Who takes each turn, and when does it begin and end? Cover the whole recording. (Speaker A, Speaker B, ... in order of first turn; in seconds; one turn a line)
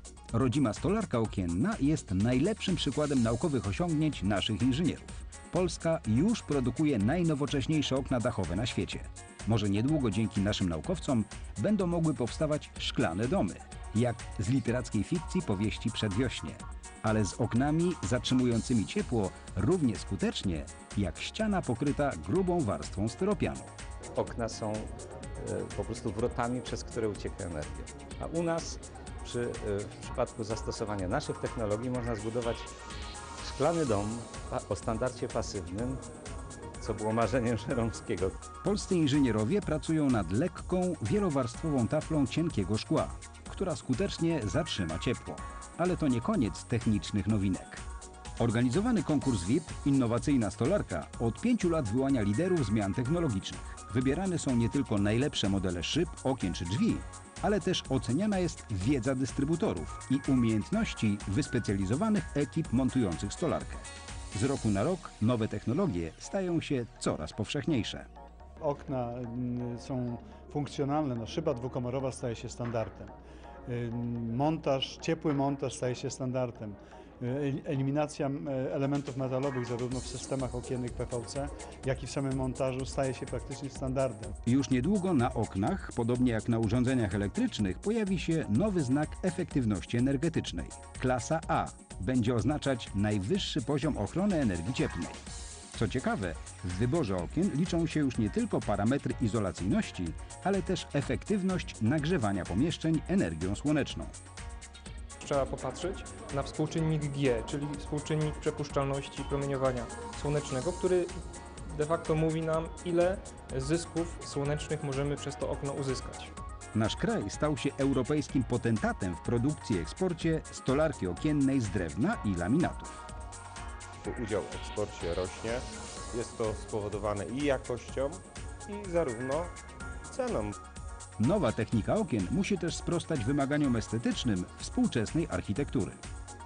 Speaker A: 0.3-23.7
Speaker B: 24.2-32.7
Speaker B: 33.4-36.0
Speaker B: 36.8-38.4
Speaker A: 38.6-47.8
Speaker A: 48.4-68.1
Speaker C: 68.6-73.1
Speaker C: 73.7-84.3
Speaker A: 84.5-95.2
Speaker A: 95.7-104.2
Speaker D: 105.2-111.2
Speaker D: 111.7-116.3
Speaker A: 116.7-123.0
Speaker E: 124.0-129.5
Speaker E: 130.1-130.5
Speaker A: 131.2-136.0